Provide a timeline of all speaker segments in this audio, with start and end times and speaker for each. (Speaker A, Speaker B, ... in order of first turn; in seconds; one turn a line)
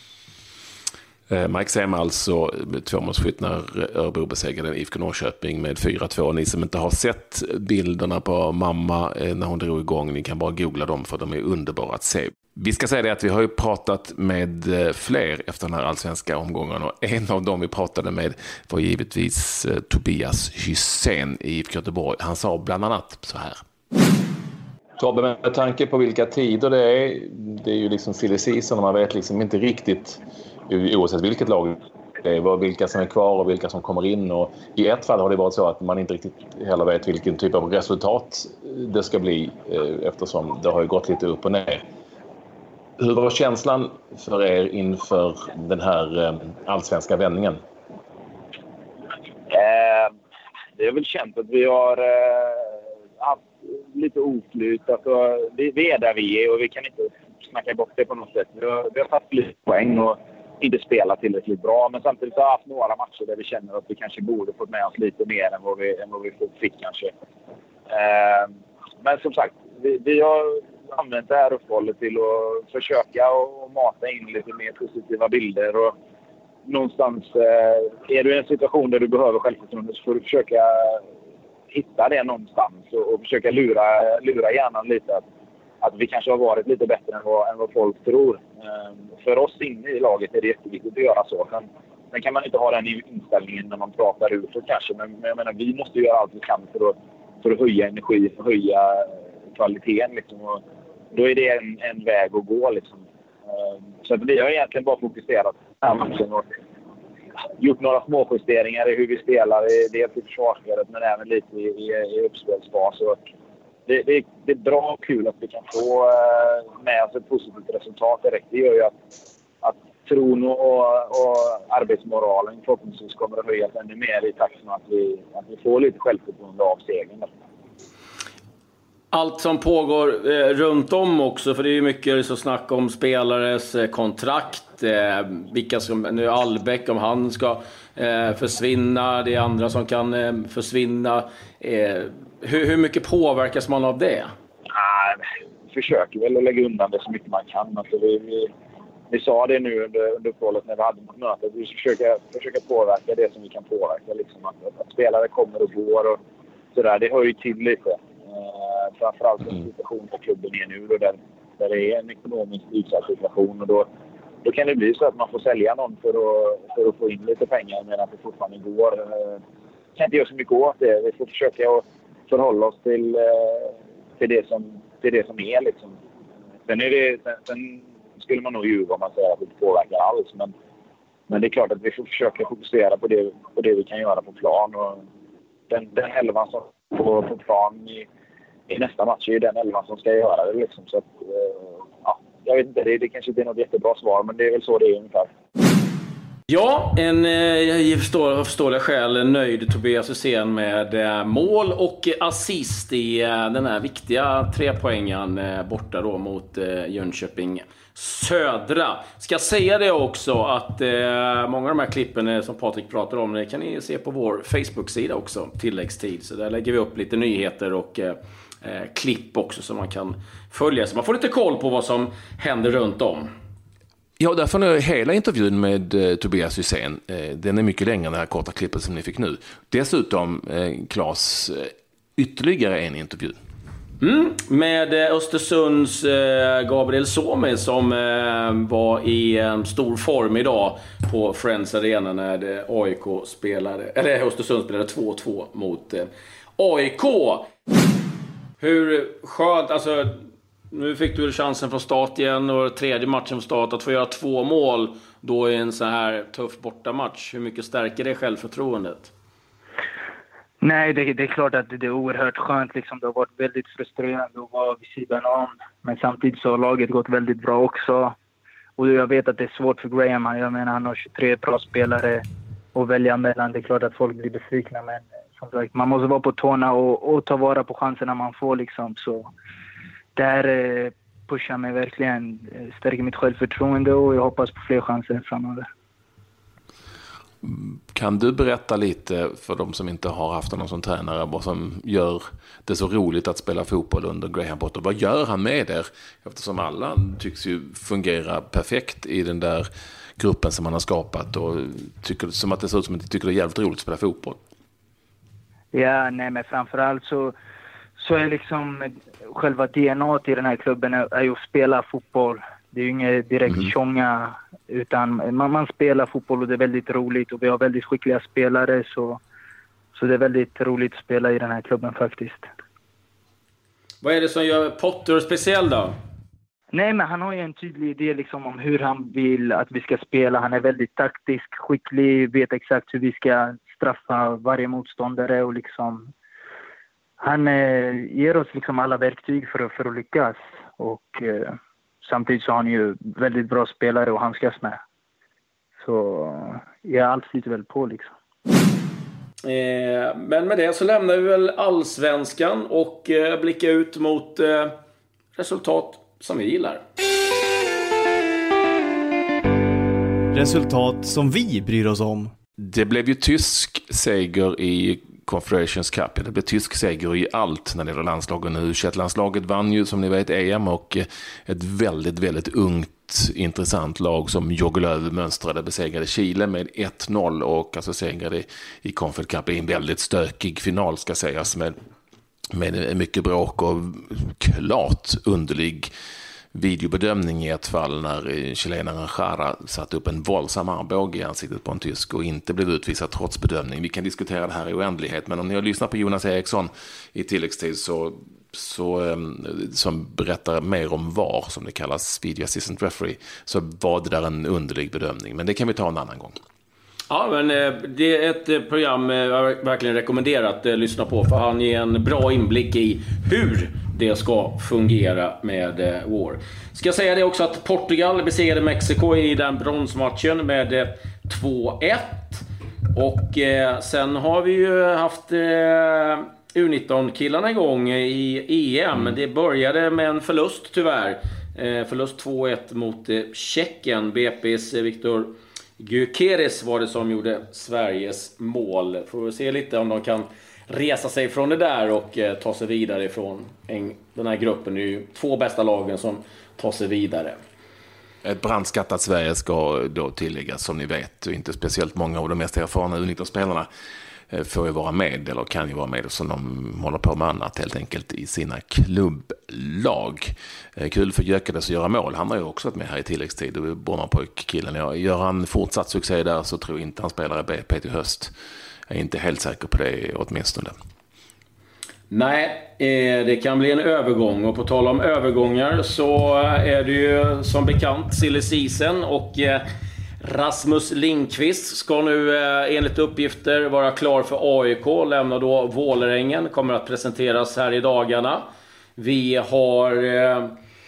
Speaker A: 1.3-23.6
Speaker A: 25.0-41.8
Speaker A: 43.0-47.6
Speaker B: 49.5-50.1
Speaker B: 50.8-67.1
Speaker B: 67.9-75.9
Speaker B: 76.7-81.0
Speaker B: 81.7-85.2
Speaker B: 85.8-100.6
Speaker B: 101.1-106.5
Speaker B: 107.6-113.2
Speaker B: 113.9-118.9
Speaker B: 119.6-127.3
Speaker C: 129.1-144.3
Speaker B: 144.7-145.2
Speaker B: 145.7-148.5
Speaker B: 149.1-156.2
Speaker B: 156.7-163.9
Speaker B: 164.4-169.4
Speaker B: 170.0-175.9
Speaker B: 176.7-180.5
Speaker B: 181.3-185.0
Speaker B: 185.7-188.1
Speaker B: 188.7-195.3
Speaker C: 196.5-223.3
Speaker A: 224.2-233.3
Speaker C: 234.0-247.5
Speaker C: 248.6-250.1
Speaker C: 250.7-259.1
Speaker D: 260.6-268.1
Speaker D: 268.8-272.2
Speaker D: 272.7-279.3
Speaker D: 280.1-285.6
Speaker A: 287.4-304.4
Speaker D: 305.7-307.3
Speaker D: 307.9-319.2
Speaker D: 319.9-322.5
Speaker C: 324.0-325.9
Speaker D: 326.7-336.1
Speaker D: 337.2-344.8
Speaker D: 345.8-348.1
Speaker C: 349.4-354.7
Speaker C: 355.4-356.8
Speaker E: 360.3-362.3
Speaker A: 362.6-381.7
Speaker A: 382.5-385.9
Speaker A: 386.5-406.4
Speaker C: 407.1-447.4
Speaker A: 448.2-453.7
Speaker A: 454.3-468.3
Speaker A: 468.9-470.7
Speaker C: 472.1-479.6
Speaker C: 480.2-488.4
Speaker C: 489.0-490.5